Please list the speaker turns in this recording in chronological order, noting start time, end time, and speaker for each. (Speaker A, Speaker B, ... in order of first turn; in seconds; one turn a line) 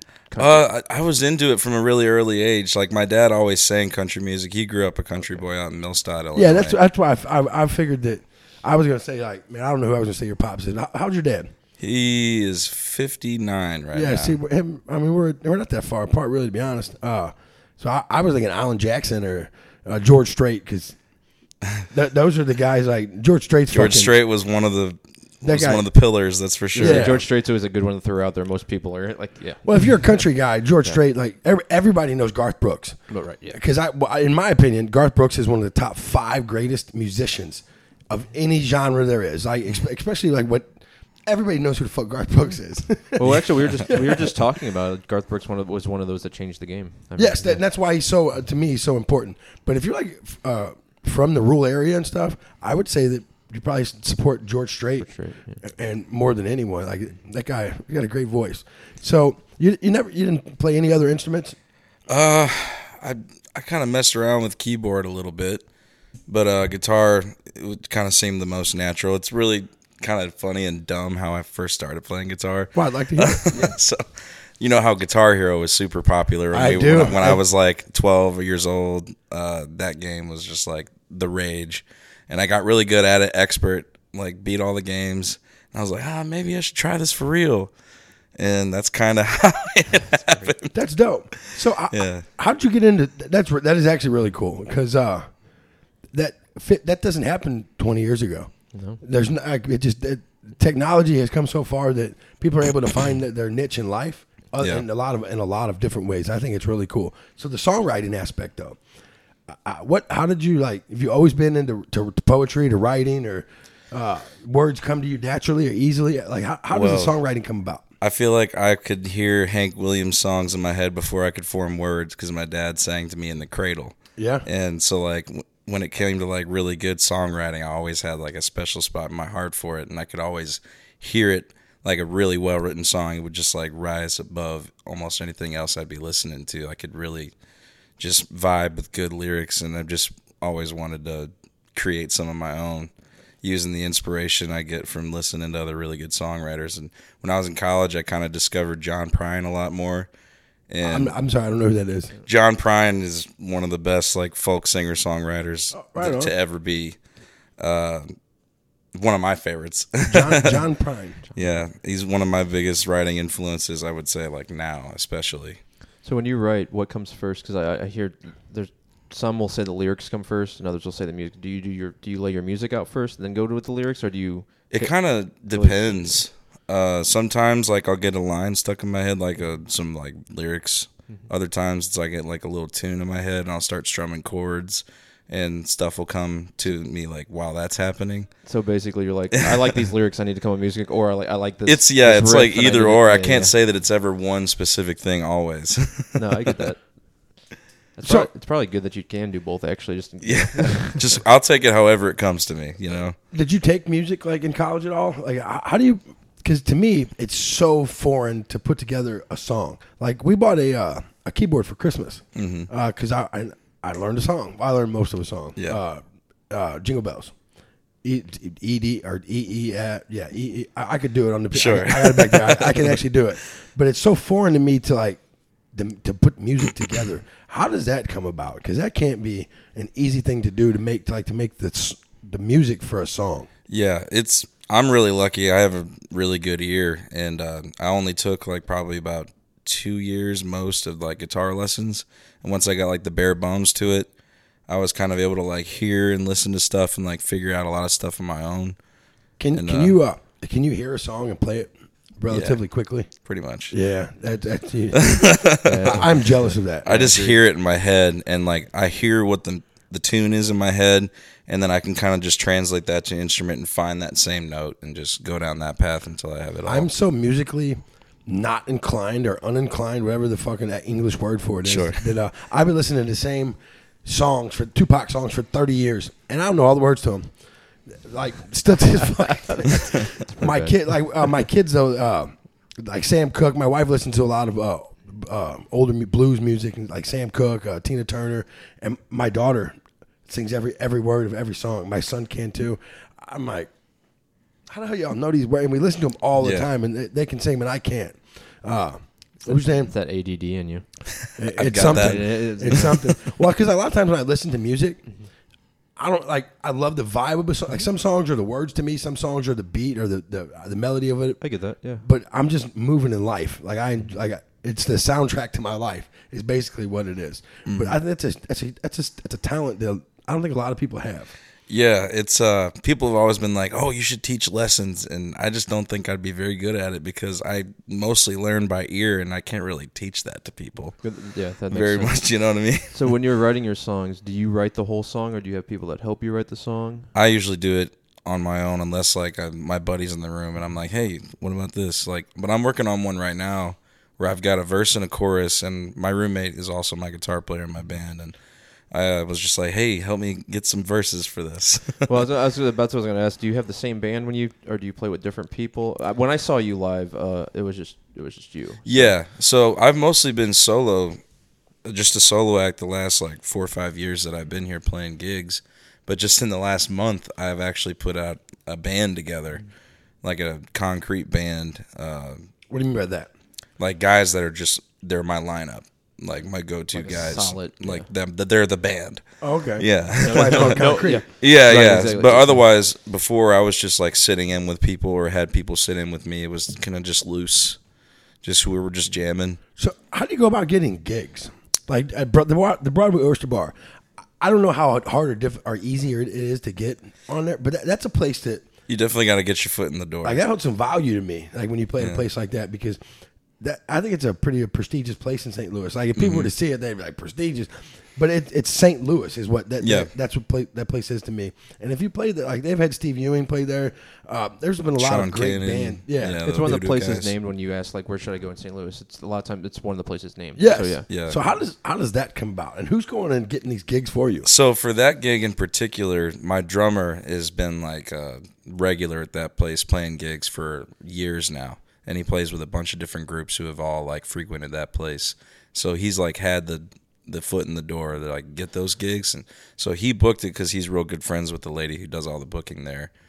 Speaker A: 0.3-0.7
Speaker B: 0.4-6.8
Speaker C: 6.3-11.5
Speaker B: 11.8-14.4
Speaker C: 13.9-21.0
Speaker C: 21.9-24.1
Speaker B: 23.7-27.2
Speaker C: 25.4-25.9
Speaker C: 26.8-27.2
Speaker A: 26.8-29.6
Speaker C: 29.6-33.0
Speaker A: 33.1-33.6
Speaker C: 33.5-44.4
Speaker A: 43.2-47.6
Speaker C: 47.2-55.1
Speaker A: 55.0-55.6
Speaker C: 55.6-61.6
Speaker B: 62.1-65.6
Speaker B: 66.3-74.0
Speaker C: 72.8-73.7
Speaker B: 74.6-87.7
Speaker C: 76.5-77.4
Speaker B: 88.4-90.8
Speaker A: 89.9-90.5
Speaker C: 90.7-95.3
Speaker B: 91.4-92.3
Speaker C: 96.1-98.5
Speaker A: 98.7-99.0
Speaker C: 99.0-108.8
Speaker C: 109.5-117.8
Speaker B: 116.7-117.2
Speaker B: 118.0-137.3
Speaker C: 124.2-124.5
Speaker B: 138.0-142.9
Speaker B: 143.4-150.1
Speaker B: 150.7-151.2
Speaker C: 150.8-152.1
Speaker B: 152.2-157.0
Speaker C: 155.7-156.3
Speaker B: 157.6-158.2
Speaker B: 158.9-160.7
Speaker C: 160.1-161.2
Speaker A: 161.3-161.7
Speaker B: 161.3-165.6
Speaker A: 166.0-174.9
Speaker B: 174.7-188.3
Speaker A: 175.5-176.2
Speaker A: 188.4-193.5
Speaker B: 191.7-196.6
Speaker A: 196.2-196.8
Speaker A: 198.0-201.2
Speaker B: 200.2-203.2
Speaker C: 203.3-217.3
Speaker B: 212.3-212.7
Speaker C: 218.0-225.2
Speaker B: 221.5-223.0
Speaker C: 225.7-233.5
Speaker B: 233.7-244.1
Speaker B: 244.7-248.8
Speaker C: 249.4-253.1
Speaker B: 249.5-250.0
Speaker B: 252.3-252.6
Speaker B: 253.2-253.8
Speaker C: 253.7-255.3
Speaker B: 254.9-256.0
Speaker A: 255.6-257.4
Speaker C: 255.9-256.9
Speaker B: 256.9-266.9
Speaker C: 266.6-277.3
Speaker B: 271.6-272.1
Speaker C: 277.9-289.8
Speaker A: 279.5-280.8
Speaker C: 290.3-293.7
Speaker C: 294.7-299.9
Speaker B: 296.4-296.7
Speaker A: 299.4-300.9
Speaker C: 301.4-305.0
Speaker B: 301.6-303.3
Speaker A: 301.8-303.0
Speaker C: 306.0-311.4
Speaker A: 311.4-312.0
Speaker C: 312.0-321.3
Speaker B: 317.6-318.0
Speaker B: 321.7-331.0
Speaker A: 331.0-332.2
Speaker B: 331.7-333.0
Speaker A: 332.9-337.1
Speaker B: 337.1-348.4
Speaker B: 348.9-352.2
Speaker A: 352.1-359.1
Speaker B: 358.9-361.2
Speaker B: 361.9-369.6
Speaker B: 370.2-372.5
Speaker C: 372.7-373.3
Speaker B: 373.8-379.2
Speaker A: 376.9-378.1
Speaker C: 379.4-381.2
Speaker B: 379.8-387.8
Speaker A: 380.2-382.6
Speaker B: 388.4-389.6
Speaker C: 389.8-393.7
Speaker C: 394.4-398.7
Speaker B: 398.9-400.4
Speaker C: 400.2-403.0
Speaker C: 403.6-416.4
Speaker B: 406.1-406.5
Speaker B: 409.8-410.1
Speaker B: 415.0-417.3
Speaker A: 416.4-421.1
Speaker C: 420.6-424.5
Speaker B: 421.1-421.4
Speaker B: 424.4-443.1